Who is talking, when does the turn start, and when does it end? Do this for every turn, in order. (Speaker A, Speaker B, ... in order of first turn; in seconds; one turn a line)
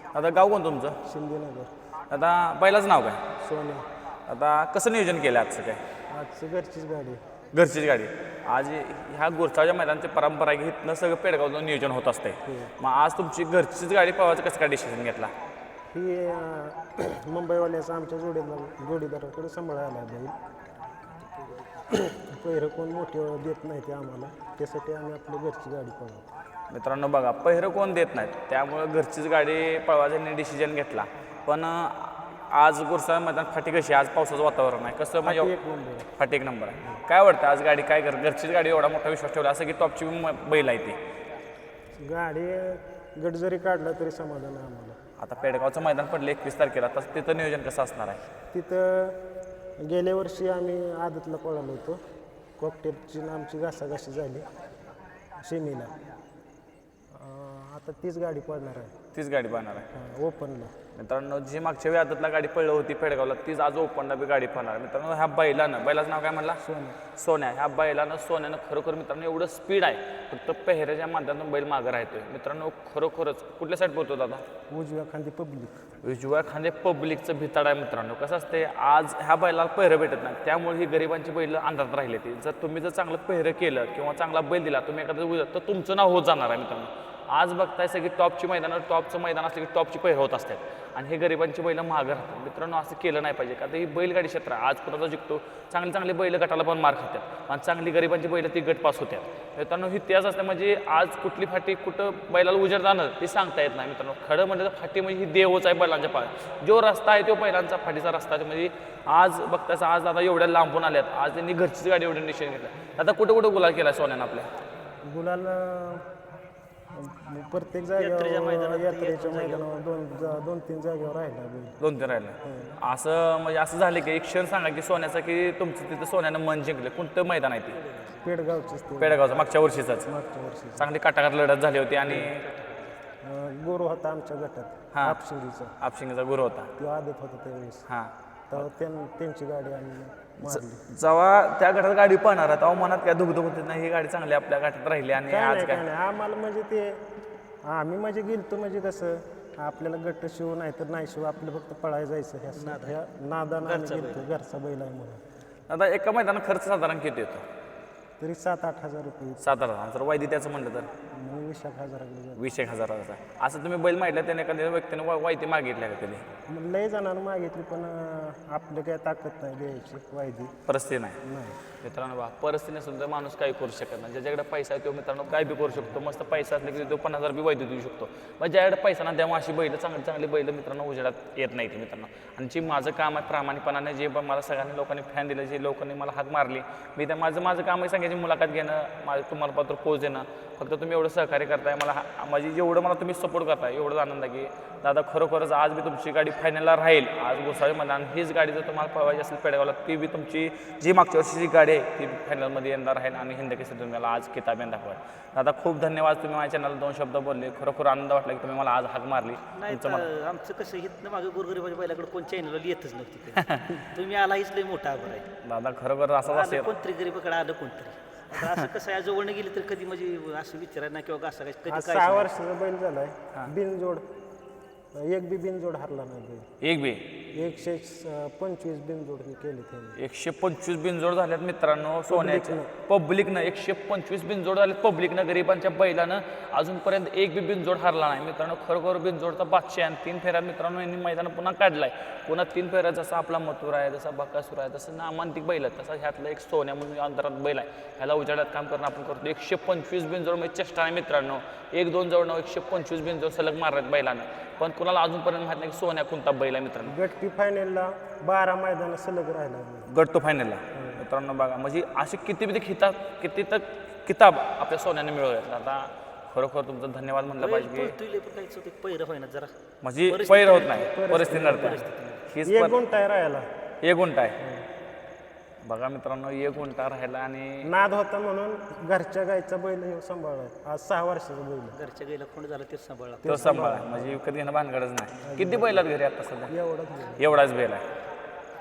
Speaker A: 0.1-1.0
Speaker B: 1.0-1.7
Speaker A: 2.1-3.2
Speaker B: 3.4-3.9
Speaker A: 4.3-5.8
Speaker B: 6.1-7.2
Speaker A: 7.5-15.3
Speaker B: 12.5-12.7
Speaker B: 15.9-20.4
Speaker C: 21.1-21.9
Speaker B: 21.9-26.3
Speaker A: 26.7-35.5
Speaker B: 35.2-36.1
Speaker A: 36.2-41.0
Speaker B: 42.0-45.0
Speaker A: 45.2-48.2
Speaker B: 48.5-49.2
Speaker B: 49.8-52.0
Speaker B: 52.6-54.5
Speaker B: 55.4-55.9
Speaker B: 57.1-58.9
Speaker A: 59.1-59.9
Speaker B: 59.9-60.7
Speaker A: 61.0-66.6
Speaker B: 66.6-67.0
Speaker A: 67.2-74.5
Speaker B: 74.7-75.9
Speaker A: 76.0-114.5
Speaker B: 115.0-116.1
Speaker B: 116.9-121.8
Speaker C: 118.0-119.6
Speaker A: 121.8-127.8
Speaker B: 122.4-122.8
Speaker C: 127.7-128.7
Speaker B: 128.2-129.5
Speaker A: 129.0-130.1
Speaker B: 130.1-130.9
Speaker A: 130.8-132.4
Speaker C: 132.1-133.0
Speaker B: 133.2-135.7
Speaker A: 134.9-135.2
Speaker A: 135.8-136.7
Speaker B: 136.8-137.9
Speaker A: 137.9-138.6
Speaker B: 138.5-140.8
Speaker A: 140.4-145.8
Speaker B: 145.2-147.0
Speaker B: 147.7-155.2
Speaker C: 152.5-153.0
Speaker C: 153.6-154.3
Speaker A: 155.7-157.5
Speaker B: 158.2-159.5
Speaker A: 159.4-160.9
Speaker B: 161.1-162.4
Speaker A: 162.4-166.2
Speaker B: 166.5-170.6
Speaker A: 170.7-171.2
Speaker B: 171.2-171.6
Speaker A: 171.8-210.1
Speaker B: 175.7-176.0
Speaker C: 209.6-215.3
Speaker A: 213.3-213.8
Speaker A: 215.4-216.7
Speaker C: 216.2-222.3
Speaker A: 218.3-218.6
Speaker B: 221.7-224.0
Speaker B: 224.9-226.5
Speaker A: 226.6-227.2
Speaker B: 227.3-230.0
Speaker A: 230.0-256.9
Speaker B: 232.1-232.7
Speaker B: 256.9-259.9
Speaker A: 259.9-268.0
Speaker B: 260.7-261.0
Speaker C: 267.4-269.5
Speaker A: 269.8-272.8
Speaker C: 270.1-272.2
Speaker B: 270.7-271.9
Speaker B: 272.4-273.5
Speaker A: 273.8-274.4
Speaker B: 274.4-274.7
Speaker A: 275.6-277.7
Speaker B: 277.6-281.8
Speaker C: 281.7-283.7
Speaker B: 283.2-284.2
Speaker A: 283.3-286.5
Speaker B: 285.2-285.9
Speaker B: 286.5-287.5
Speaker A: 287.2-287.9